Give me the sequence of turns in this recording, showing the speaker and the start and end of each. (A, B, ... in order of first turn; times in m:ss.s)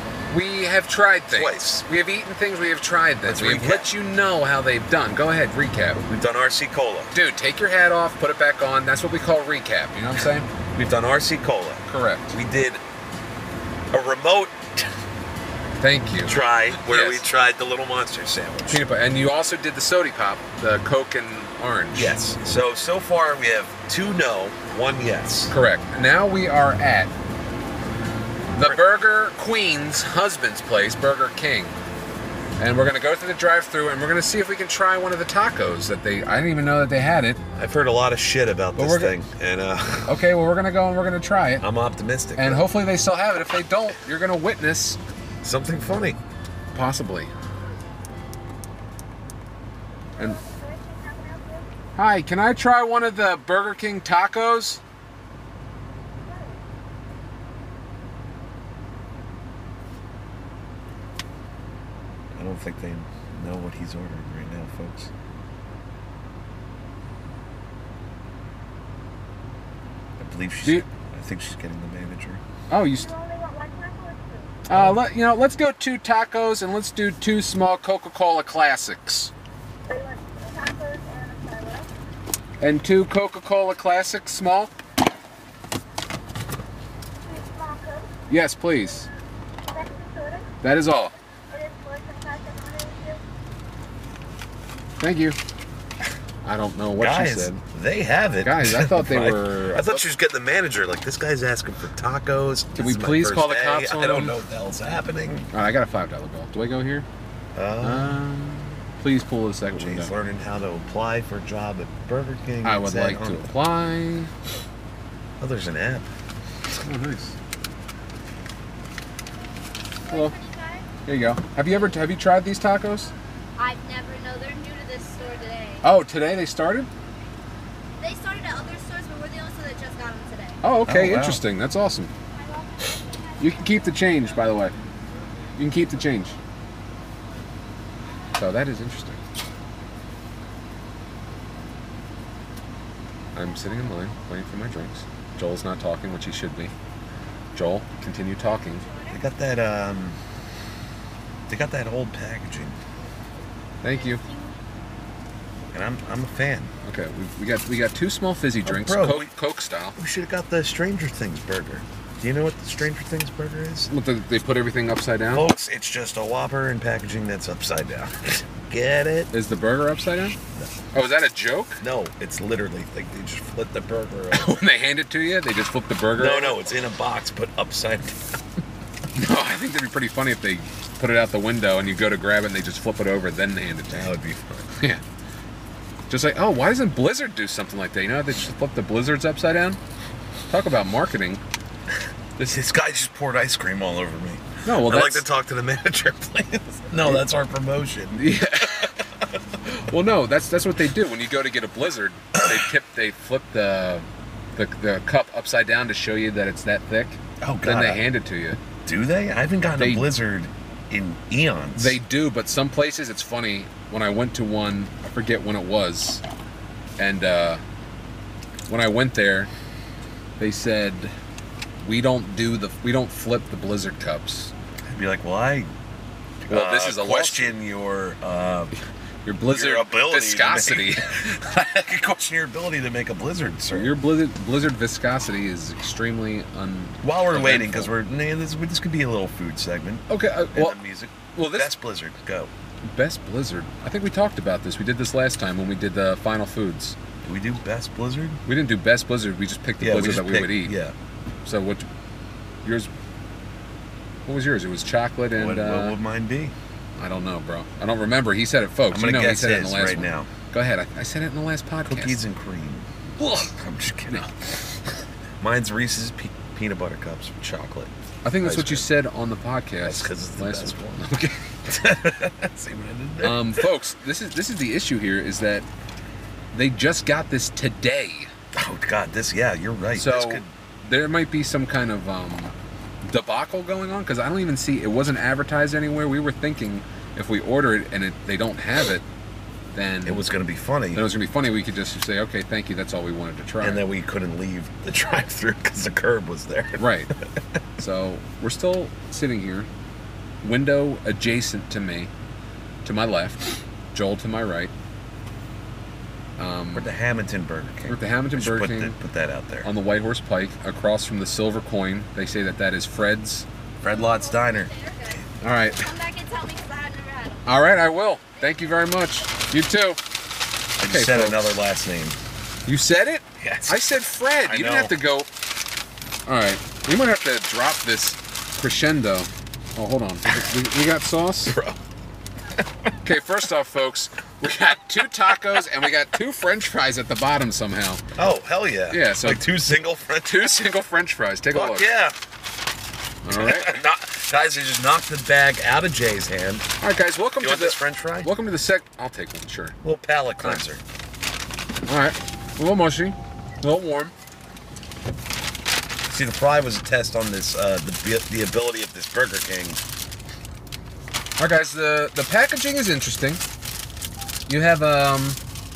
0:00.3-0:06.0 A
0:01.3-0:01.8 B
0:03.2-0:03.9 B
0:06.1-0:07.1 B
0:07.1-0:10.4 A
0:10.7-0:12.8 B
0:11.9-0:12.3 A
0:13.9-0:14.9 B
0:15.8-0:17.2 A
0:16.2-0:18.8 B
0:18.7-0:22.2 A
0:21.9-0:25.5 B
0:25.5-0:27.1 A
0:28.5-0:31.8 A
0:28.6-0:28.8 B
0:32.6-0:37.4 A
0:37.5-0:40.2 B
0:38.8-0:39.1 A
0:40.0-0:41.6 A
0:41.6-0:42.7 B
0:42.4-0:45.0 A
0:45.4-0:46.2 B
0:46.7-0:47.3 A
0:50.2-0:51.7 C
0:52.0-0:54.8 A
0:56.2-0:56.6 C
1:02.3-1:05.1 B
1:10.2-1:12.4 B
1:12.7-1:13.1 A
1:12.9-1:14.6 C
1:14.7-1:19.3 A
1:14.7-1:15.0 B
1:19.9-1:21.9 C
1:22.6-1:24.7 A
1:27.2-1:28.2 C
1:28.3-1:29.1 A
1:29.7-1:30.5 C
1:30.6-1:31.1 A
1:31.5-1:33.2 C
1:35.0-1:35.4 A
1:36.4-1:37.6 A
1:37.0-1:45.5 B
1:38.4-1:40.0 A
1:42.8-1:44.4 A
1:45.5-1:47.0 A
1:47.5-1:48.2 B
1:47.8-1:50.1 A
1:49.8-1:53.5 B
1:52.6-1:54.3 A
1:55.4-1:56.1 B
1:56.8-1:57.3 A
2:00.0-2:00.9 C
2:00.1-2:00.3 A
2:01.0-2:03.1 A
2:03.6-2:05.8 C
2:05.8-2:06.9 A
2:08.0-2:10.6 C
2:10.6-2:12.1 A
2:10.8-2:11.4 B
2:12.4-2:13.9 C
2:13.4-2:14.7 A
2:15.6-2:16.4 A
2:18.3-2:19.4 A
2:23.3-2:26.7 A
2:27.5-2:28.9 A
2:29.1-2:30.2 B
2:31.5-2:32.8 B
2:33.8-2:34.2 A
2:34.0-2:34.6 C
2:35.7-2:36.7 B
2:36.8-2:40.0 A
2:38.6-2:39.3 B
2:40.0-2:43.9 B
2:43.9-2:45.5 A
2:45.3-2:49.3 B
2:49.3-2:50.4 A
2:50.9-2:51.8 A
2:51.8-2:54.6 B
2:54.3-2:56.7 A
2:56.2-2:58.4 B
2:59.1-3:04.1 A
3:03.9-3:04.7 B
3:06.1-3:09.8 A
3:10.5-3:11.4 A
3:12.4-3:19.2 B
3:14.6-3:15.2 A
3:18.1-3:18.9 A
3:19.6-3:28.6 A
3:27.4-3:28.0 B
3:28.8-3:32.0 B
3:29.8-3:30.1 A
3:31.8-3:36.2 A
3:37.0-3:37.6 A
3:38.7-3:39.5 A
3:40.4-3:41.1 A
3:41.8-3:44.5 A
3:44.9-3:45.7 B
3:46.5-3:47.6 A
3:46.5-3:48.7 B
3:49.2-3:51.2 A
3:49.5-3:53.9 B
3:53.7-3:57.9 A
3:57.0-4:02.5 B
4:00.1-4:00.8 A
4:01.3-4:01.7 A
4:02.8-4:07.0 A
4:07.2-4:08.4 B
4:08.4-4:10.8 A
4:09.8-4:10.9 B
4:11.4-4:11.9 A
4:12.6-4:12.9 A
4:14.2-4:16.0 A
4:15.4-4:16.5 B
4:17.0-4:22.2 A
4:18.9-4:20.3 B
4:21.9-4:22.9 B
4:23.2-4:23.5 A
4:23.4-4:24.5 B
4:25.4-4:28.9 B
4:28.2-4:31.4 A
4:29.8-4:31.1 B
4:31.6-4:33.6 B
4:33.2-4:35.6 A
4:36.5-4:38.3 A
4:38.5-4:40.5 B
4:39.9-4:49.0 A
4:49.7-4:50.2 A
4:50.0-4:51.0 B
4:50.9-4:53.8 A
4:53.6-4:56.8 B
4:56.8-4:57.1 A
4:57.8-4:59.7 A
5:00.4-5:02.1 A
5:02.8-5:04.7 A
5:06.4-5:06.9 A
5:06.7-5:09.7 B
5:07.9-5:09.0 A
5:09.6-5:13.4 A
5:13.8-5:15.2 B
5:13.8-5:17.5 C
5:15.4-5:15.9 A
5:17.4-5:20.0 A
5:20.8-5:22.2 B
5:20.8-5:21.6 A
5:22.6-5:25.3 A
5:23.4-5:25.0 B
5:26.3-5:31.6 A
5:31.4-5:31.8 B
5:33.0-5:38.0 A
5:38.1-5:40.5 B
5:38.9-5:39.4 A
5:40.2-5:41.9 A
5:41.5-5:42.1 B
5:43.2-5:43.8 A
5:43.3-5:46.7 B
5:46.8-5:49.8 A
5:47.4-5:48.3 B
5:49.8-5:50.8 B
5:51.9-5:54.1 A
5:56.1-5:59.8 B
6:01.4-6:03.4 A
6:04.5-6:05.4 A